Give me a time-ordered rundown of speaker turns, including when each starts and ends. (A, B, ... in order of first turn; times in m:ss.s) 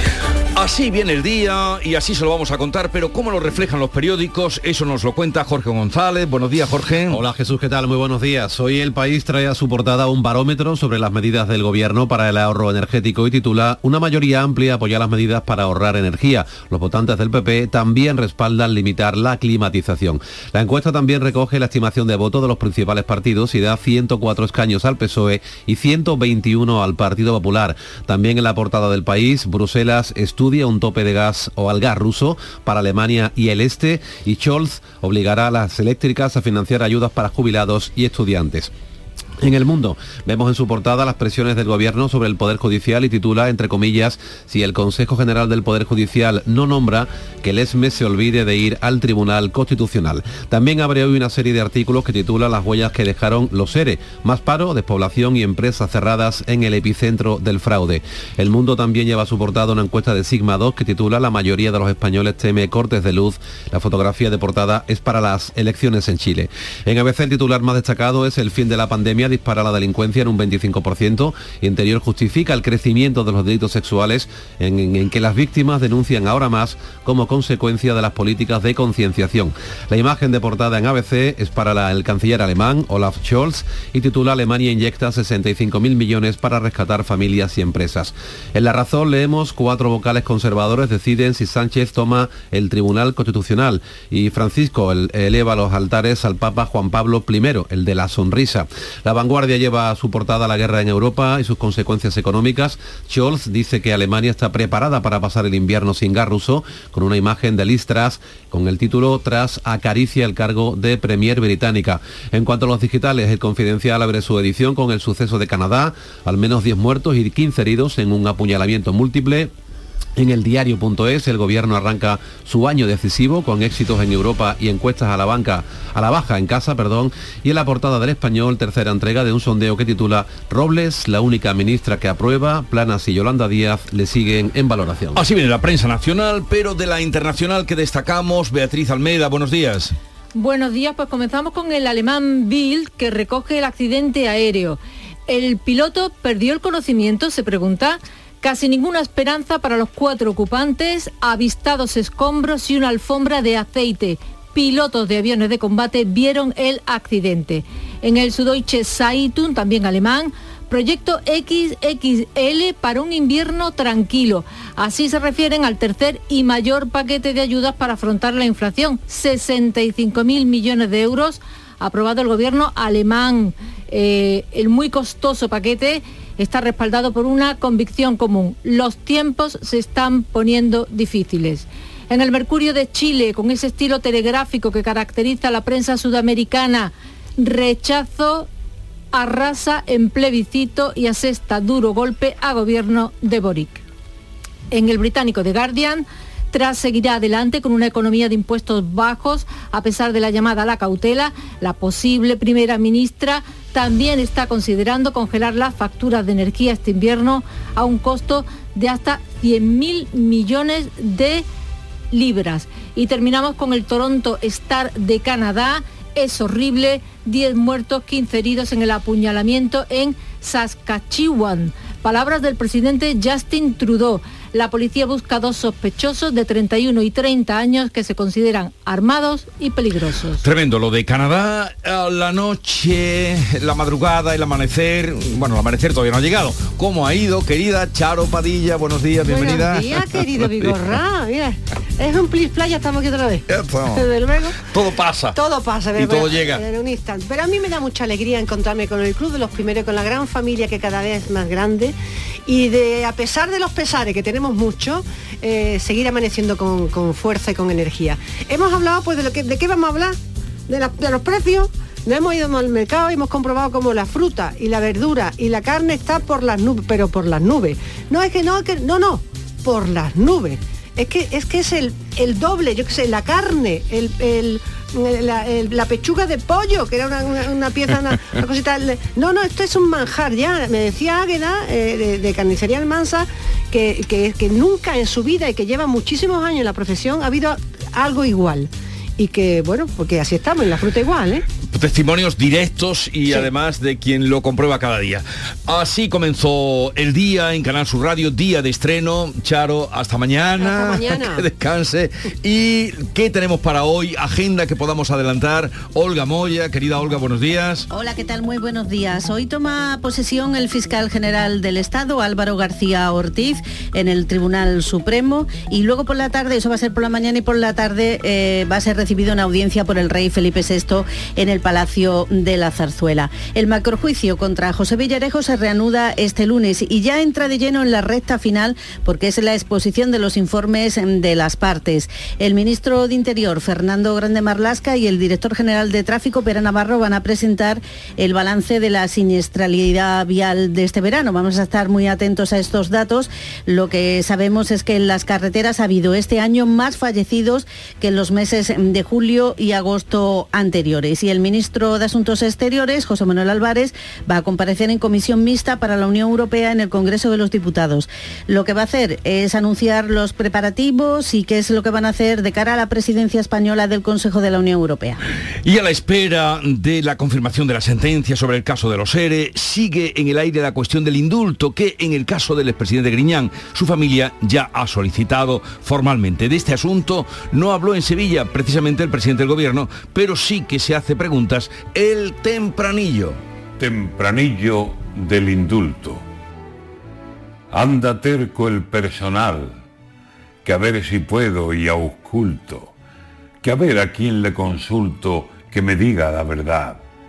0:00.6-0:07.2 A
0:07.1-0:38.7 B
0:39.4-1:59.5 B
2:00.2-2:15.2 B
2:15.2-2:19.9 A
2:20.4-3:08.5 C
3:09.1-3:13.8 C
3:14.7-3:31.4 C
3:32.1-3:50.4 C
3:50.4-4:00.8 A
3:59.2-4:04.6 D
4:03.5-4:04.1 A
4:04.6-4:05.4 A
4:05.4-4:12.0 D
4:06.0-4:06.6 A
4:12.5-4:20.2 D
4:20.7-4:51.4 D
4:51.7-5:07.9 A
5:00.6-5:01.4 D
5:07.9-6:05.2 E
6:05.6-6:23.4 A
6:23.8-6:26.2 F
6:27.7-6:29.8 F
6:30.6-6:32.9 F
6:33.6-6:37.0 F